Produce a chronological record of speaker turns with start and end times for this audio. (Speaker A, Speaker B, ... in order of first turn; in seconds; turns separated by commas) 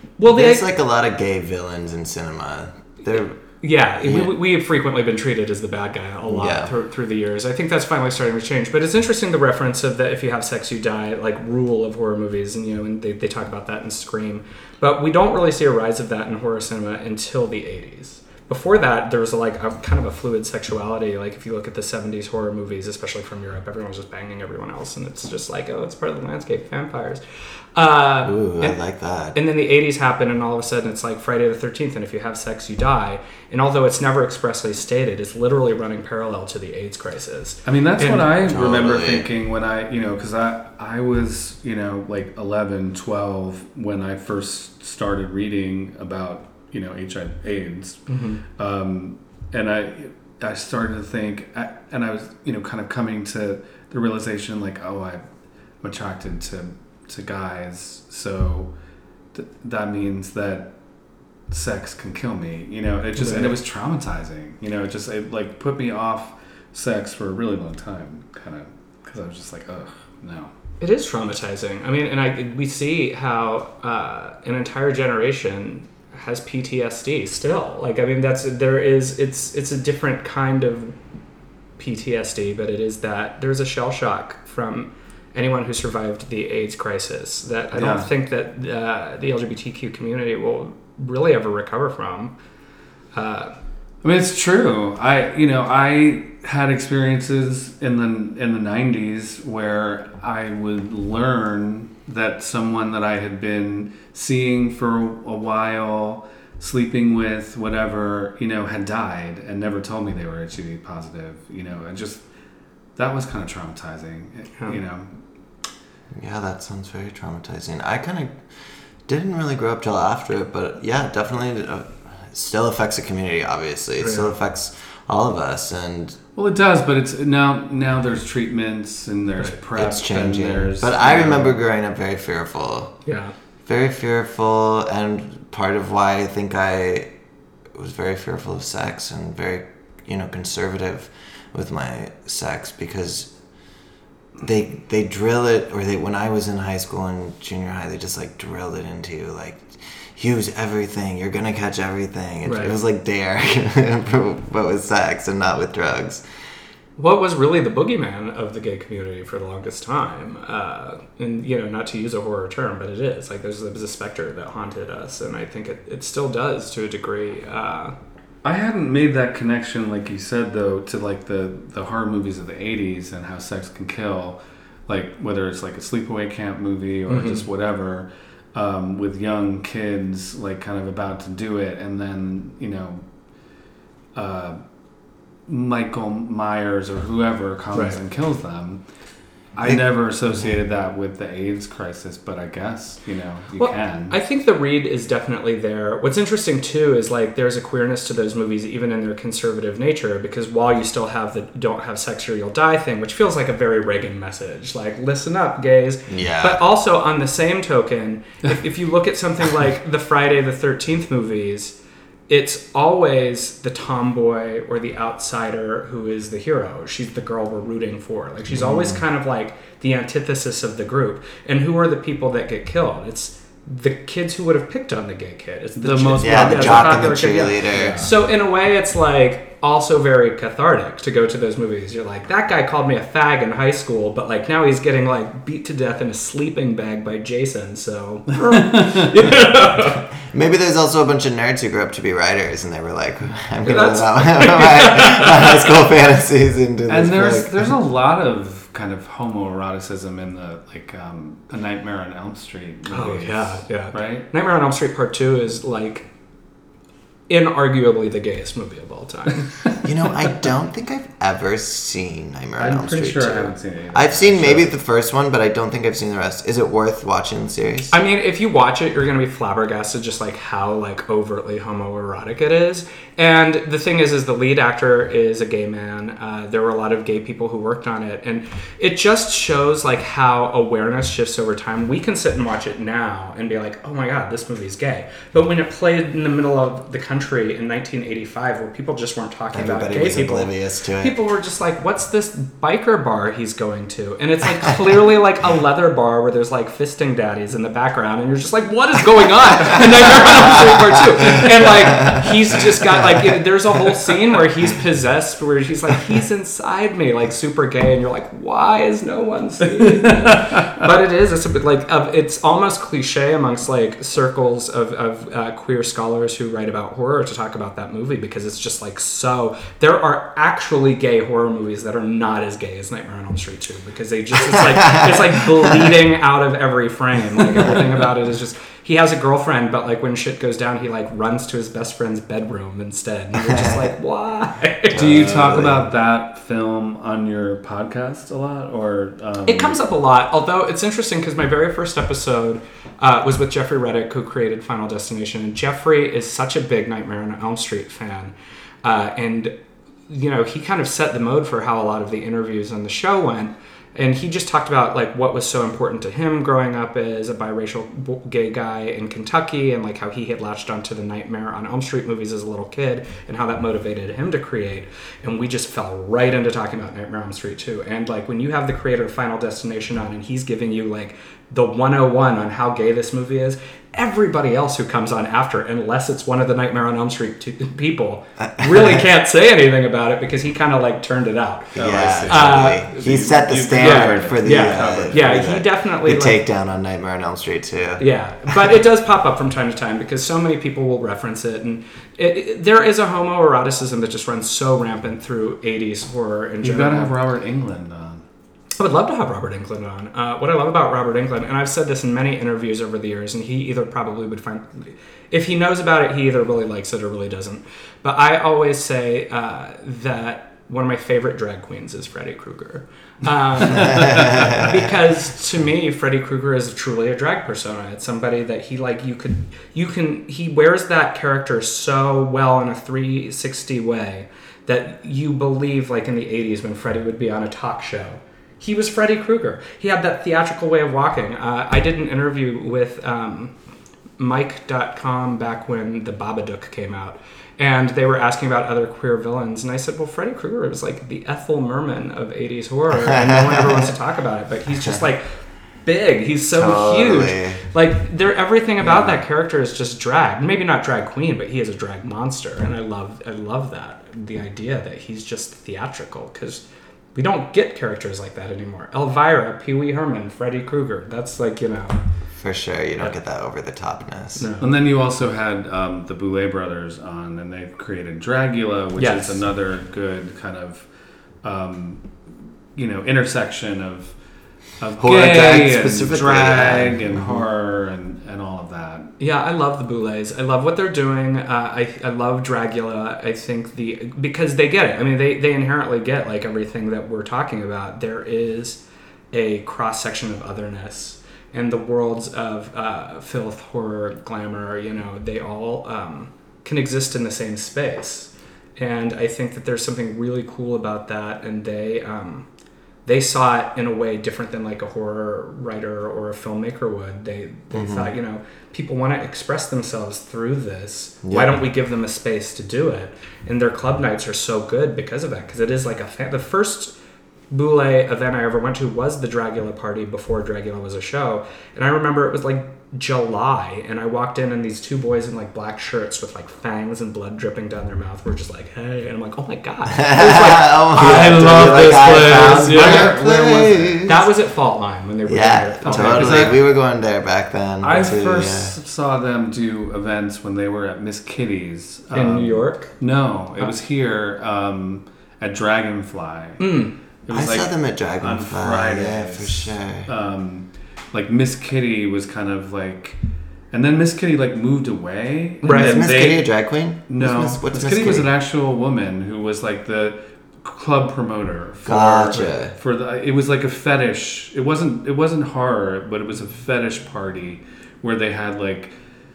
Speaker A: 0.2-0.6, Speaker B: 0.2-3.4, Speaker A: 3.6-27.2, Speaker B: 4.0-4.3, Speaker B: 6.3-6.7, Speaker A: 27.8-28.8, Speaker B: 28.2-29.4, Speaker A: 29.3-38.3, Speaker C: 37.6-55.3, Speaker B: 38.4-39.3, Speaker A: 48.1-48.4, Speaker C: 55.8-58.7, Speaker C: 59.3-60.7, Speaker C: 61.5-70.5, Speaker A: 63.2-63.5, Speaker A: 70.8-81.0, Speaker A: 81.8-92.3, Speaker C: 87.7-88.1, Speaker A: 93.1-93.5, Speaker C: 94.0-112.2, Speaker C: 113.0-115.2, Speaker B: 116.2-118.4, Speaker B: 119.1-126.2, Speaker A: 124.0-124.3, Speaker C: 126.4-131.6, Speaker B: 129.8-133.0, Speaker A: 133.1-133.3, Speaker B: 133.7-137.1, Speaker B: 137.8-143.3, Speaker B: 144.4-156.2, Speaker A: 152.4-152.8, Speaker A: 157.0-167.9, Speaker C: 168.4-183.1, Speaker A: 177.1-177.4, Speaker C: 184.2-184.6, Speaker C: 185.5-188.9, Speaker C: 189.5-194.2, Speaker A: 193.6-211.8, Speaker B: 206.1-206.6, Speaker A: 212.3-240.1, Speaker B: 218.5-219.0, Speaker C: 225.8-228.1, Speaker B: 226.2-228.0, Speaker C: 238.4-239.1, Speaker B: 240.2-247.7, Speaker A: 243.7-245.7, Speaker C: 246.9-254.3, Speaker A: 252.9-256.1, Speaker A: 257.3-259.5, Speaker B: 259.8-267.9, Speaker C: 262.6-264.7, Speaker A: 267.9-335.3, Speaker B: 289.5-291.2, Speaker C: 310.0-310.7, Speaker B: 324.8-325.9, Speaker B: 333.4-333.9, Speaker B: 334.9-335.9, Speaker C: 334.9-339.8, Speaker A: 339.5-349.5, Speaker A: 350.1-382.9, Speaker B: 378.4-379.0, Speaker C: 381.7-385.5, Speaker B: 381.8-388.8, Speaker A: 383.8-386.4, Speaker A: 388.0-397.1, Speaker C: 396.6-398.2, Speaker A: 398.8-433.6, Speaker C: 413.9-414.2, Speaker A: 434.2-445.3, Speaker B: 443.0-443.9, Speaker B: 444.7-445.0, Speaker A: 445.8-456.6, Speaker B: 446.6-447.6, Speaker B: 448.8-449.2, Speaker A: 457.1-462.0, Speaker B: 462.4-464.5, Speaker A: 464.4-464.7, Speaker C: 464.6-470.9, Speaker A: 469.0-469.4, Speaker C: 471.4-472.1, Speaker C: 472.8-479.1, Speaker B: 475.0-477.5, Speaker A: 479.2-488.8, Speaker A: 489.3-502.5, Speaker A: 503.1-516.9, Speaker B: 507.7-508.1, Speaker B: 511.2-511.6, Speaker A: 517.5-533.1, Speaker B: 529.9-534.3, Speaker C: 531.0-534.1, Speaker A: 534.1-536.6, Speaker B: 535.3-538.8, Speaker C: 535.8-536.6, Speaker C: 537.8-546.7, Speaker A: 542.1-543.0, Speaker A: 546.6-547.0, Speaker C: 547.3-553.2, Speaker B: 547.3-550.1, Speaker C: 553.7-568.9, Speaker A: 555.6-556.0, Speaker B: 555.7-558.3, Speaker B: 561.9-562.7